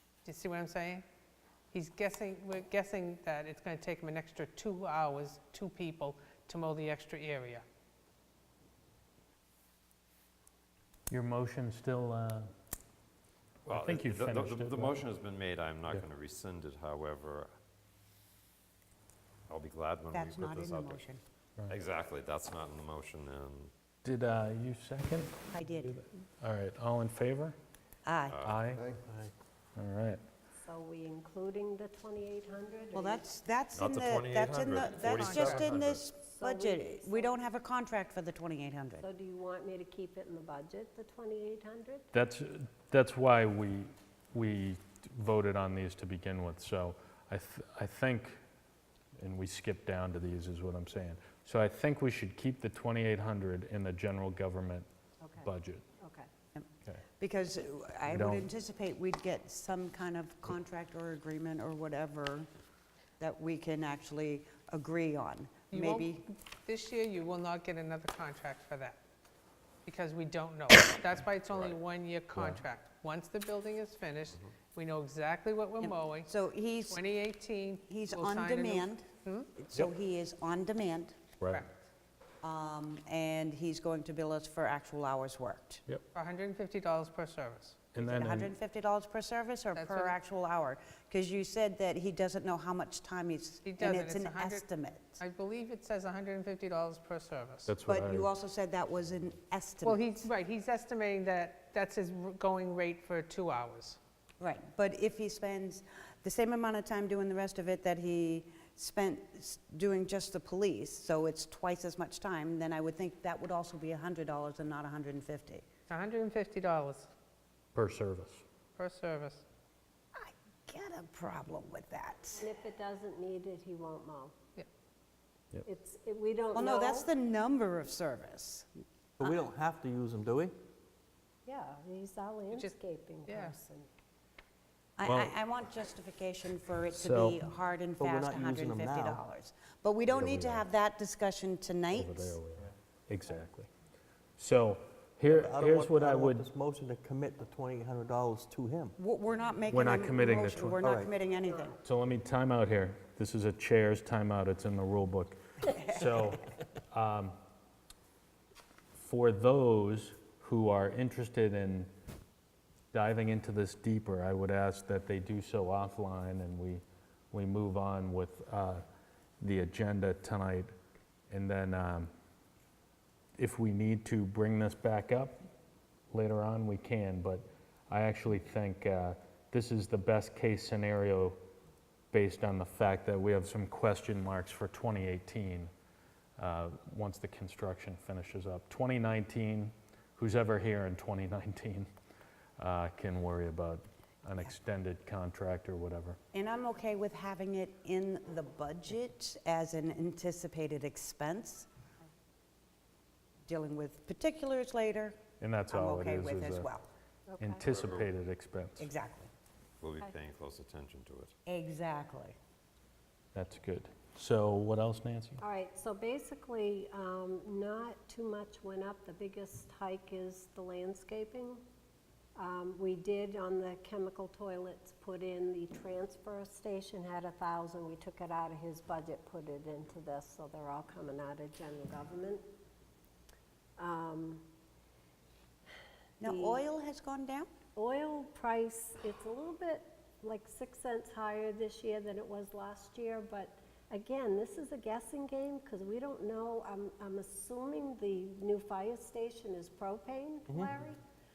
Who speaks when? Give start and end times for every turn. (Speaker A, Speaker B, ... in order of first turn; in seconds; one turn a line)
Speaker A: 0.2-1.0
Speaker A: 1.7-7.6
Speaker B: 11.1-12.5
Speaker B: 13.7-15.1
Speaker C: 13.7-17.5
Speaker C: 19.5-21.1
Speaker D: 20.1-21.2
Speaker C: 21.7-23.7
Speaker B: 24.0-27.6
Speaker D: 25.5-25.9
Speaker D: 28.1-28.5
Speaker C: 28.3-28.6
Speaker B: 28.4-28.9
Speaker E: 29.1-29.3
Speaker B: 29.8-30.2
Speaker F: 30.6-33.2
Speaker D: 32.9-39.1
Speaker C: 33.7-36.0
Speaker F: 36.2-37.4
Speaker F: 39.0-42.1
Speaker B: 42.1-48.4
Speaker B: 49.2-54.9
Speaker F: 55.2-56.3
Speaker B: 55.4-55.8
Speaker D: 57.2-62.5
Speaker B: 58.1-58.5
Speaker D: 63.2-66.2
Speaker A: 65.7-69.0
Speaker A: 69.8-76.3
Speaker C: 71.5-71.8
Speaker B: 72.4-72.6
Speaker D: 75.8-77.0
Speaker A: 76.9-79.5
Speaker D: 77.9-81.2
Speaker A: 81.5-81.8
Speaker D: 82.4-85.8
Speaker A: 86.1-87.9
Speaker B: 87.9-88.5
Speaker D: 88.0-95.2
Speaker A: 89.7-90.2
Speaker A: 93.6-94.7
Speaker A: 95.2-97.7
Speaker B: 97.7-98.3
Speaker D: 97.9-100.3
Speaker A: 99.8-104.0
Speaker D: 104.4-115.6
Speaker A: 115.9-117.1
Speaker B: 117.8-118.4
Speaker A: 118.8-119.5
Speaker D: 120.2-122.5
Speaker F: 122.4-124.3
Speaker F: 125.7-127.1
Speaker D: 126.5-128.7
Speaker E: 129.2-130.6
Speaker F: 131.5-133.9
Speaker A: 133.3-133.6
Speaker D: 135.0-142.4
Speaker B: 135.1-135.3
Speaker B: 136.9-137.4
Speaker E: 138.0-139.2
Speaker B: 140.2-140.7
Speaker B: 141.9-143.7
Speaker B: 144.4-146.5
Speaker E: 145.3-148.9
Speaker D: 149.0-151.8
Speaker B: 149.7-150.9
Speaker E: 150.8-151.1
Speaker B: 151.8-157.3
Speaker B: 159.0-161.9
Speaker B: 162.9-168.8
Speaker B: 169.4-170.7
Speaker B: 171.3-172.1
Speaker B: 173.4-175.4
Speaker B: 176.1-181.4
Speaker B: 182.1-185.7
Speaker B: 186.4-191.9
Speaker B: 192.6-196.2
Speaker D: 196.3-201.7
Speaker D: 203.5-205.2
Speaker B: 205.4-206.7
Speaker D: 205.7-206.9
Speaker F: 207.3-207.6
Speaker B: 207.4-208.9
Speaker C: 207.7-208.1
Speaker D: 208.8-209.3
Speaker C: 209.8-211.3
Speaker D: 211.5-212.3
Speaker B: 213.3-215.4
Speaker F: 215.4-221.6
Speaker F: 222.4-232.4
Speaker F: 233.8-234.4
Speaker D: 236.2-237.5
Speaker F: 236.2-236.6
Speaker F: 237.8-251.0